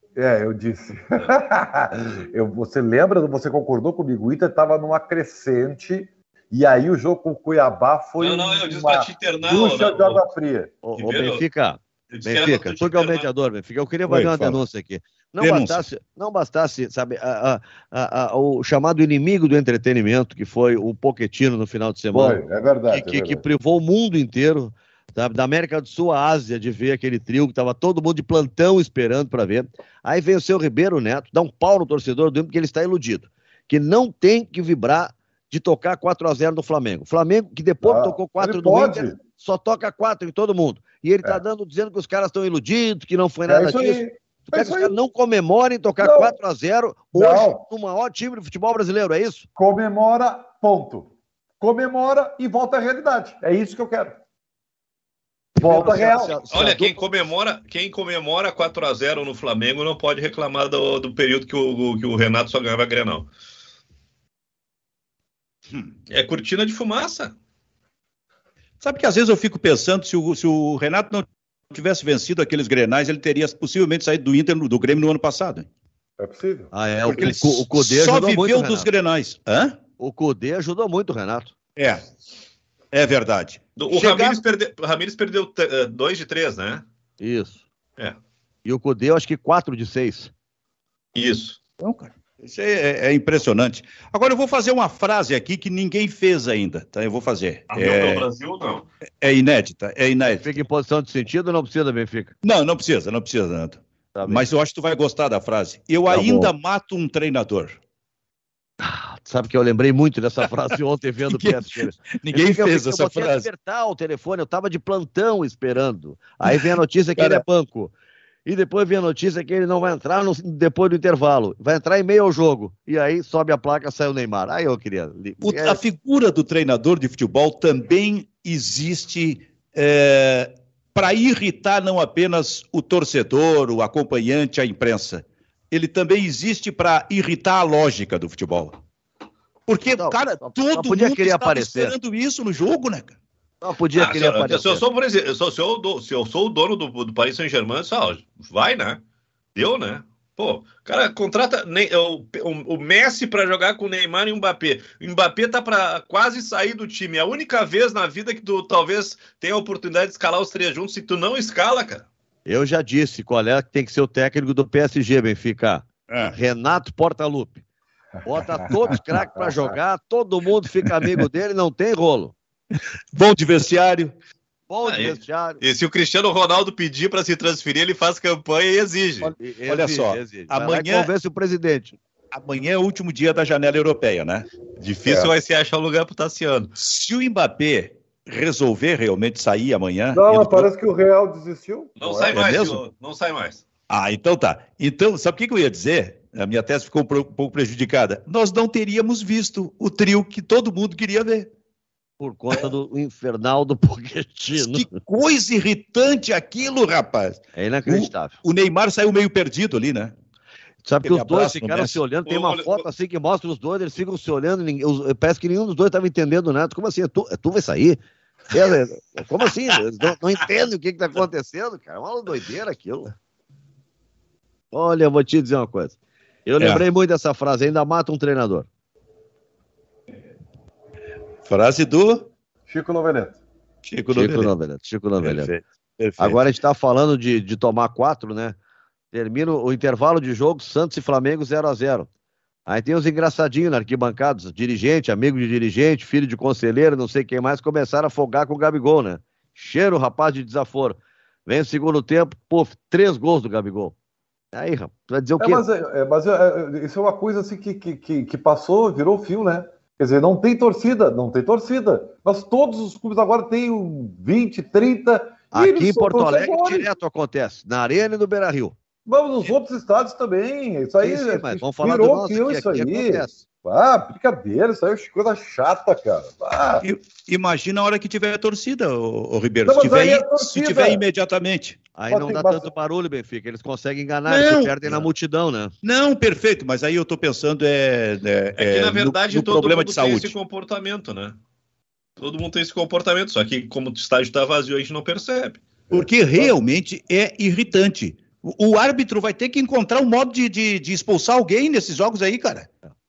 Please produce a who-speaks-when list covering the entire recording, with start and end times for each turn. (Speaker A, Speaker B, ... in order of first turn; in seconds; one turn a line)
Speaker A: 0.1-10.7
Speaker B: 8.2-10.2
Speaker C: 10.8-49.5
Speaker B: 10.9-11.4
Speaker B: 12.1-13.3
Speaker D: 14.1-14.6
Speaker D: 15.4-15.8
Speaker A: 22.1-23.4
Speaker A: 37.8-39.2
Speaker A: 43.5-44.9
Speaker A: 46.0-46.3
Speaker A: 47.1-47.6
Speaker A: 49.5-54.2
Speaker C: 55.5-57.0
Speaker A: 55.6-56.4
Speaker B: 56.5-63.3
Speaker B: 66.1-67.3
Speaker D: 68.8-75.7
Speaker A: 76.2-76.7
Speaker C: 76.7-78.9
Speaker D: 77.1-79.8
Speaker C: 80.0-81.5
Speaker D: 81.8-82.1
Speaker D: 82.9-84.4
Speaker B: 83.8-86.8
Speaker C: 87.2-87.6
Speaker C: 88.6-90.3
Speaker B: 91.1-91.6
Speaker D: 91.8-98.3
Speaker B: 97.7-98.8
Speaker D: 99.2-100.6
Speaker C: 100.3-102.3
Speaker D: 102.4-107.8
Speaker C: 104.1-104.5
Speaker C: 106.1-106.5
Speaker C: 108.8-117.9
Speaker D: 111.3-113.5
Speaker D: 116.4-117.4
Speaker C: 118.5-125.8
Speaker D: 125.4-138.8
Speaker D: 139.7-143.2
Speaker C: 139.9-141.9
Speaker C: 143.6-144.8
Speaker B: 143.9-149.0
Speaker B: 149.6-162.1
Speaker C: 162.4-167.6
Speaker D: 166.1-166.3
Speaker C: 168.2-172.3
Speaker D: 173.1-174.1
Speaker C: 174.7-175.6
Speaker B: 174.8-179.3
Speaker C: 179.2-182.0
Speaker D: 179.7-181.1
Speaker D: 182.3-184.4
Speaker B: 184.8-186.7
Speaker D: 186.8-190.7
Speaker A: 190.1-192.4
Speaker B: 192.0-193.6
Speaker C: 192.3-192.8
Speaker D: 193.9-201.5
Speaker C: 202.2-204.9
Speaker D: 204.6-210.1
Speaker C: 207.6-208.3
Speaker C: 210.8-223.1
Speaker D: 211.0-212.0
Speaker B: 212.2-212.8
Speaker C: 224.7-228.7
Speaker D: 226.6-226.8
Speaker D: 231.4-232.3
Speaker A: 232.7-233.4
Speaker D: 233.8-234.5
Speaker C: 234.1-235.5
Speaker D: 235.2-236.4
Speaker C: 236.2-238.6
Speaker C: 239.1-242.1
Speaker C: 242.7-253.9
Speaker C: 254.5-255.6
Speaker A: 255.4-266.9
Speaker C: 265.5-268.8
Speaker A: 269.1-276.8
Speaker C: 271.0-273.4
Speaker D: 276.8-281.8
Speaker A: 279.6-281.0
Speaker C: 281.9-285.7
Speaker A: 282.1-282.7
Speaker D: 284.3-285.0
Speaker D: 285.8-290.3
Speaker B: 288.6-291.4
Speaker B: 292.2-295.6
Speaker D: 295.9-302.7